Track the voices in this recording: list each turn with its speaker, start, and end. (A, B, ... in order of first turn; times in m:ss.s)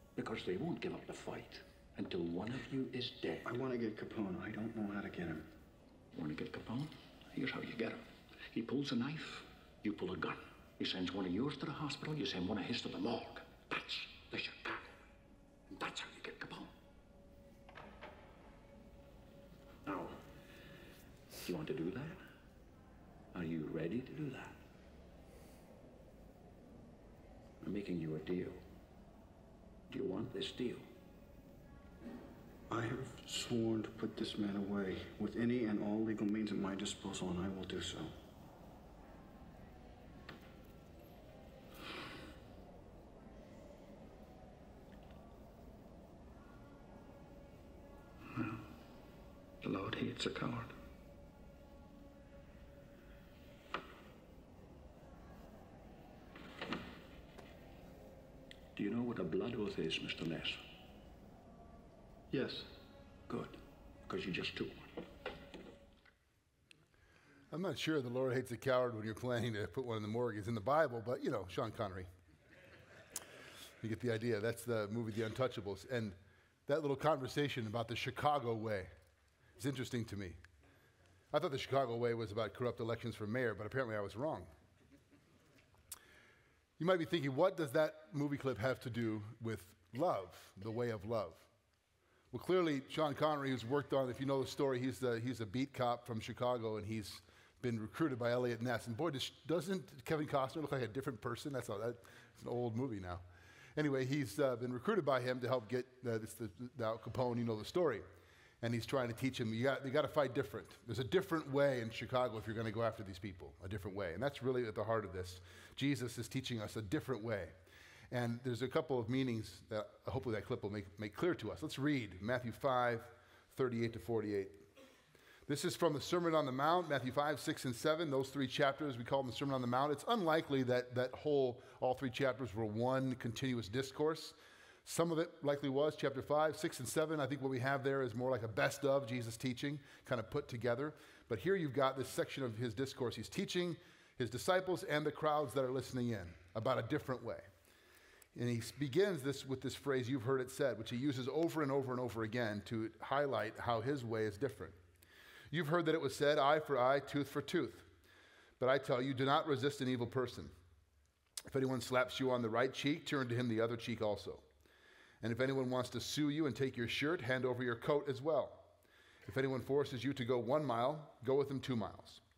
0:00.2-0:03.5 A
0:03.4-0:05.5 B
0:06.1-0:14.9 A
0:15.7-0:16.7 A
0:19.8-0:20.2 A
0:21.4-0:22.2 A
0:23.3-0:24.6 A
0:27.6-0:28.6 A
0:29.9-0:30.9 A
0:32.7-0:38.1 B
0:48.3-0:48.7 A
0:49.6-0:50.7 A
0:58.8-1:00.6 A
1:02.3-1:02.7 B
1:03.3-1:05.1 A
1:07.5-1:12.1 C
1:13.8-1:18.9 C
1:19.6-1:20.4 C
1:21.3-1:24.5 C
1:26.8-1:31.5 C
1:32.3-1:43.2 C
1:43.8-1:48.0 C
1:48.6-1:57.6 C
1:58.1-2:04.6 C
2:05.5-2:27.5 C
2:28.3-2:34.8 C
2:35.5-2:37.9 C
2:38.6-2:40.5 C
2:41.5-2:44.4 C
2:45.2-2:48.7 C
2:49.3-2:52.2 C